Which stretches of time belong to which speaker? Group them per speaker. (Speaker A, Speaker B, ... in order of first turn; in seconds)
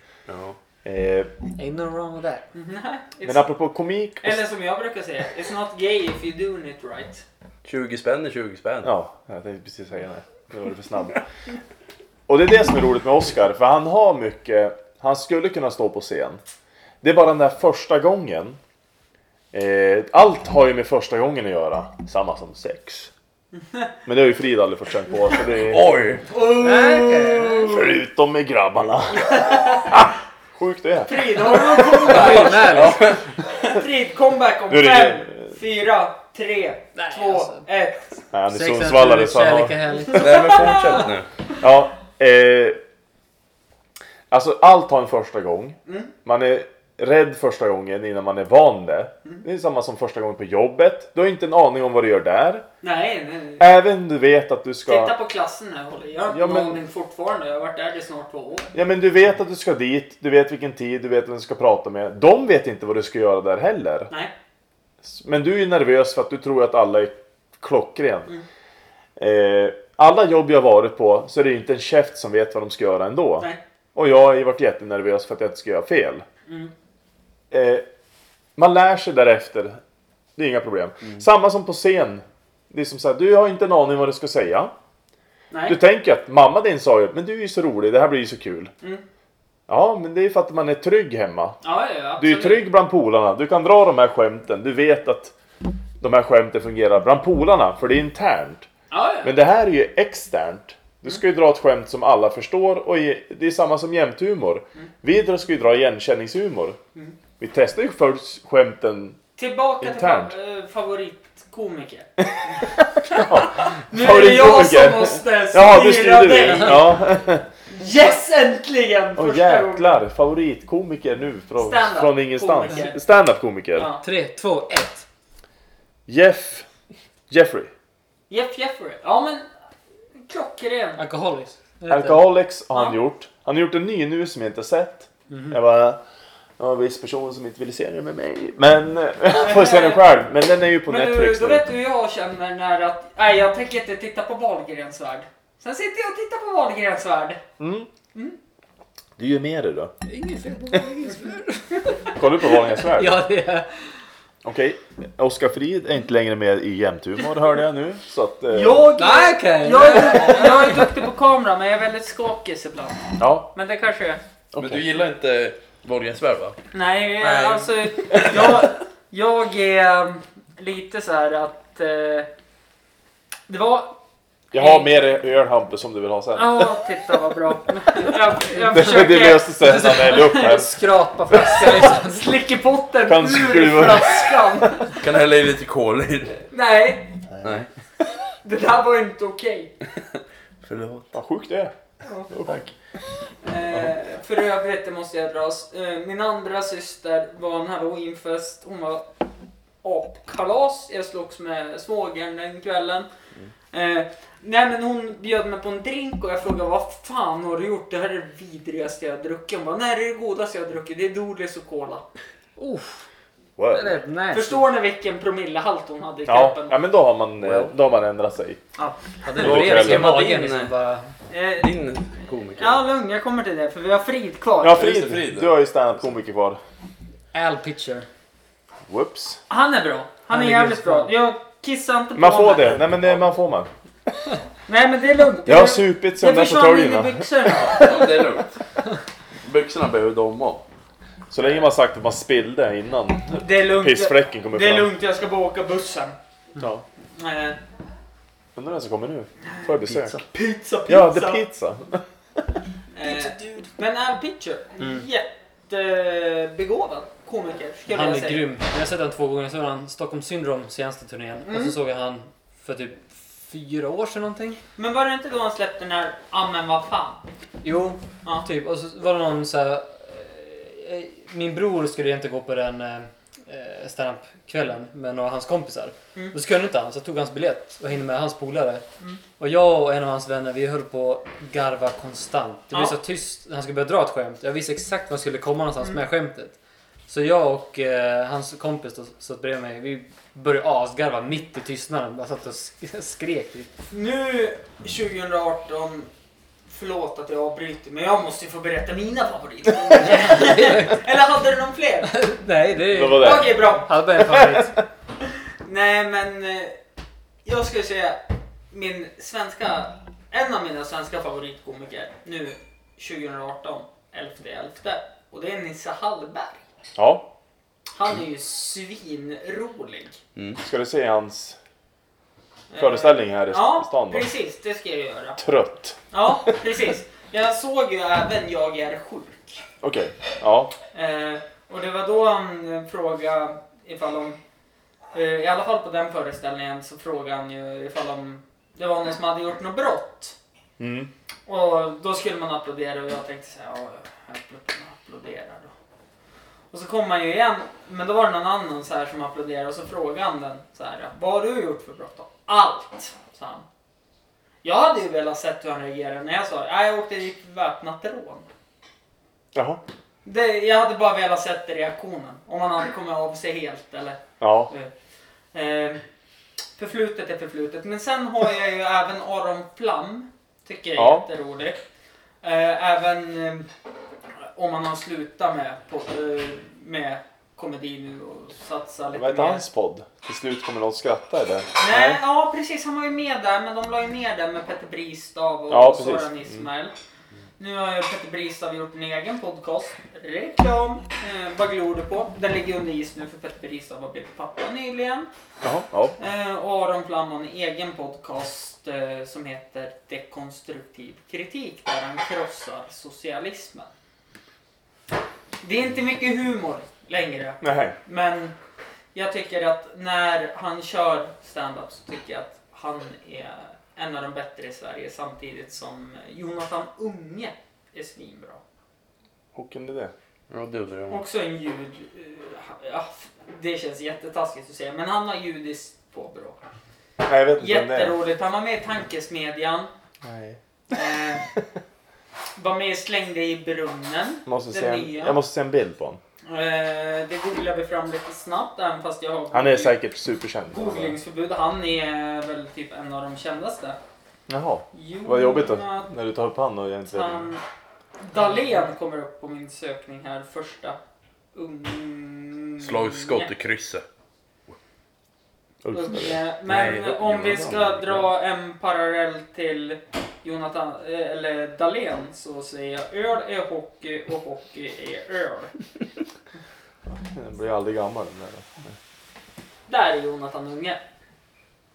Speaker A: 0.3-0.6, 7.6-8.9, 25.5-26.4, 32.1-33.3, 40.1-41.3, 164.6-166.6, 167.2-168.6, 185.0-186.4, 187.4-187.7, 190.6-191.1, 217.4-217.7, 219.2-220.7, 221.6-222.8, 224.7-225.5, 237.6-238.6, 239.4-240.6, 249.8-250.2, 420.5-421.2, 452.8-454.0, 456.7-458.2
Speaker B: 0.8-1.3, 3.2-4.4, 8.8-11.2, 12.3-16.4, 17.0-18.6, 19.5-23.1, 24.1-25.9, 27.6-32.7, 34.7-35.6, 38.3-39.8, 41.6-42.8, 44.3-52.6, 53.6-55.1, 56.3-56.8, 58.7-64.1, 65.0-68.3, 69.2-76.2, 77.5-77.8, 78.6-79.8, 80.4-84.7, 85.7-88.7, 89.7-91.6, 92.2-95.3, 96.0-98.7, 99.2-106.8, 107.4-109.2, 109.8-110.3, 112.2-117.5, 119.1-123.9, 126.1-126.7, 127.3-127.7, 131.9-136.0, 136.6-141.6, 147.6-147.9, 149.2-149.9, 152.1-153.2, 154.4-158.9, 163.2-163.5, 164.5-164.8, 174.5-176.8, 178.7-180.8, 181.3-181.8, 183.0-184.7, 191.1-191.7, 192.3-192.6, 213.6-214.0, 216.2-218.6, 219.4-220.2, 224.6-226.6, 228.9-229.4, 232.1-234.1, 235.4-237.9, 241.3-244.9, 246.6-246.8, 248.6-250.2, 250.9-252.5, 302.9-304.8, 316.9-317.3, 320.6-321.6, 322.8-324.3, 325.4-326.5, 329.8-330.7, 340.8-341.1, 359.5-359.8, 364.4-364.7, 371.0-371.2, 379.1-382.2, 385.7-386.7, 395.6-396.2, 407.6-408.0, 419.5-420.1, 427.2-428.2, 430.2-430.6, 434.4-436.2, 439.5-441.2, 444.5-447.5, 455.8-457.7, 467.1-468.9
Speaker C: 1.6-2.5, 26.6-27.7, 32.0-33.0, 36.9-37.6, 38.5-40.5, 124.0-125.0, 131.0-132.2, 135.3-135.6, 150.1-152.2, 152.8-153.7, 158.9-160.9, 178.6-178.9, 179.7-182.3, 212.6-213.1, 213.7-214.7, 219.2-221.1, 227.3-228.1, 230.3-231.1, 257.9-264.6, 267.6-278.8, 279.4-286.5, 287.1-293.7, 299.9-301.1, 302.1-304.8
Speaker D: 2.5-3.5, 4.2-7.2, 23.5-23.9, 26.3-27.2, 29.4-29.9, 31.1-32.7, 33.6-38.2, 40.1-41.0, 45.9-46.1, 52.8-53.7, 54.9-58.7, 76.5-76.7, 85.5-85.8, 91.6-92.7, 98.9-99.3, 109.4-117.0, 117.7-120.0, 121.6-123.0, 123.7-124.0, 128.3-129.5, 130.2-131.0, 132.7-133.0, 139.3-140.2, 140.8-147.4, 158.5-164.2, 166.7-172.3, 173.5-174.0, 174.5-174.9, 176.3-185.0, 186.5-187.2, 188.3-189.7, 192.0-192.3, 193.4-199.1, 199.8-203.1, 203.7-212.0, 214.3-216.8, 221.3-221.7, 222.6-224.9, 229.5-232.8, 234.7-238.2, 241.4-241.7, 243.3-246.1, 247.2-247.6, 250.3-251.4, 252.9-258.4, 261.4-261.7, 264.8-267.2, 282.7-283.0, 293.9-296.1, 296.7-302.1, 303.1-303.9, 305.6-306.8, 307.4-308.2, 308.7-316.6, 317.9-320.2, 322.7-325.4, 326.1-329.6, 330.9-334.4, 335.1-340.4, 341.5-345.7, 346.7-353.6, 354.6-358.4, 360.2-364.9, 365.5-366.0, 366.8-371.8, 372.4-373.7, 374.4-379.6, 381.8-386.9, 387.6-395.3, 396.2-403.9, 405.6-408.5, 409.1-418.6, 421.1-426.6, 427.6-429.9, 430.9-431.5, 432.6-435.4, 436.4-439.9, 440.7-444.0, 444.9-446.1, 447.1-447.6, 448.2-451.0, 451.5-453.5, 455.9-465.7, 469.9-471.0